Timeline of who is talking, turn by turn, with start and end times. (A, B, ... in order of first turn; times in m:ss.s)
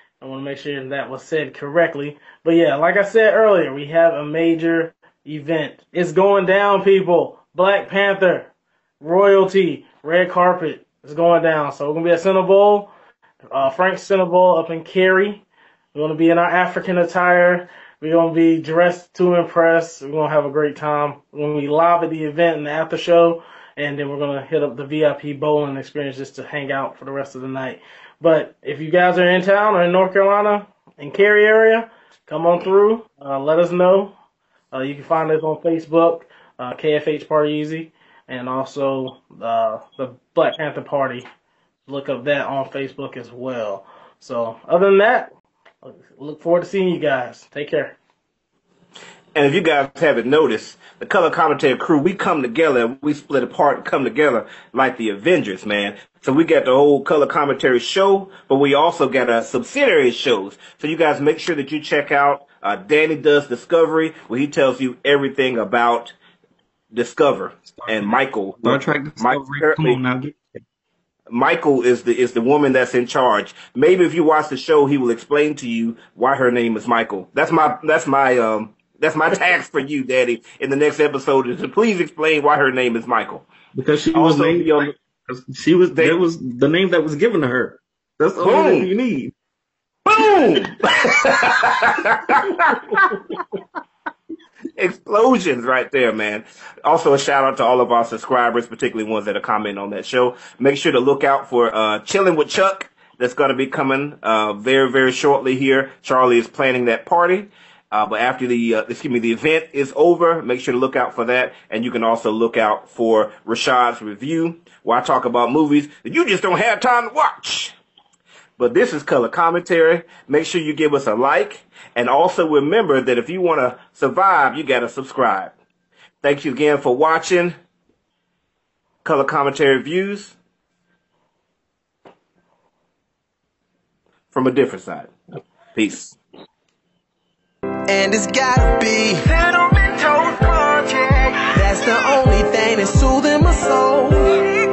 0:00.2-0:08.5 A
0:09.0-0:12.9 A
0:13.5-0:34.1 A
0:34.7-0:41.3 A
0:41.9-0:45.3 A
0:45.8-0:48.0 A
0:49.3-1:06.2 B
1:06.9-1:10.0 B
1:07.7-1:10.6 C
1:11.3-1:23.5 B
1:23.7-1:29.3 C
1:24.1-1:24.9 B
1:28.4-1:28.9 B
1:30.0-1:33.1 B
1:34.8-1:57.7 B
1:58.6-2:05.5 B
2:06.2-2:07.6 B
2:09.0-2:10.4 B
2:14.3-2:15.1 B
2:15.7-2:16.2 B
2:17.9-2:19.2 D
2:19.2-2:21.8 E
2:21.5-2:24.2 D